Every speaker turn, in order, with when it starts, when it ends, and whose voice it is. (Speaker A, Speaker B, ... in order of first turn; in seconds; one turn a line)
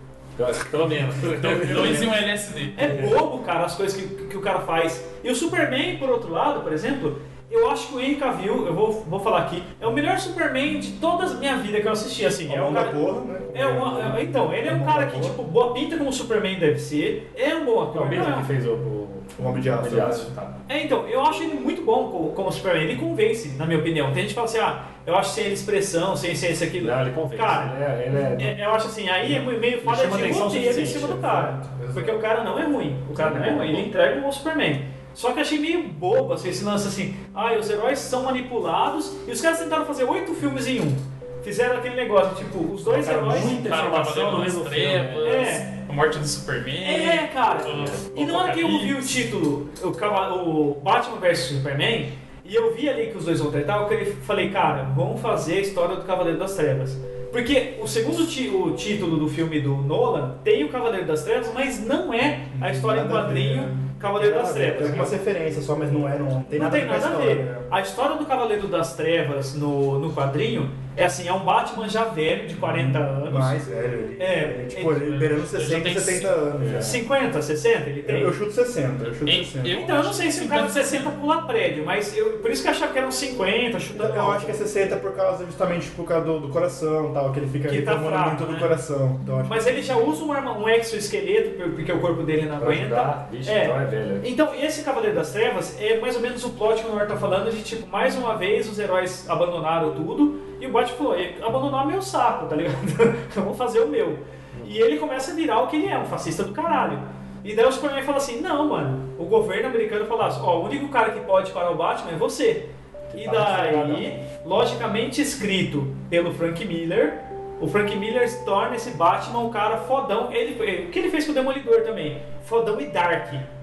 Speaker A: 0.4-2.2
Speaker B: 1.3-3.1
Speaker C: 1.3-2.1
Speaker D: 2.7-18.5
Speaker A: 2.9-3.1
Speaker C: 12.5-15.4
Speaker A: 17.9-20.6
Speaker C: 19.4-20.3
Speaker D: 20.7-27.7
Speaker A: 26.8-28.6
Speaker D: 28.4-43.6
Speaker A: 29.2-31.2
Speaker C: 30.9-32.2
Speaker A: 33.1-33.9
Speaker A: 42.9-45.5
Speaker B: 43.3-49.2
Speaker D: 45.2-45.7
Speaker D: 46.8-65.1
Speaker A: 47.7-48.0
Speaker C: 62.5-64.0
Speaker A: 64.1-65.1
Speaker C: 64.6-67.7
Speaker D: 66.5-73.6
Speaker C: 72.6-77.0
Speaker D: 74.2-75.1
Speaker B: 74.9-76.4
Speaker A: 76.6-77.0
Speaker D: 76.8-78.3
Speaker C: 78.0-79.8
Speaker B: 79.0-81.1
Speaker D: 79.7-84.6
Speaker C: 83.9-89.8
Speaker D: 87.7-88.7
Speaker D: 89.5-123.5
Speaker A: 92.6-94.3
Speaker A: 113.1-114.1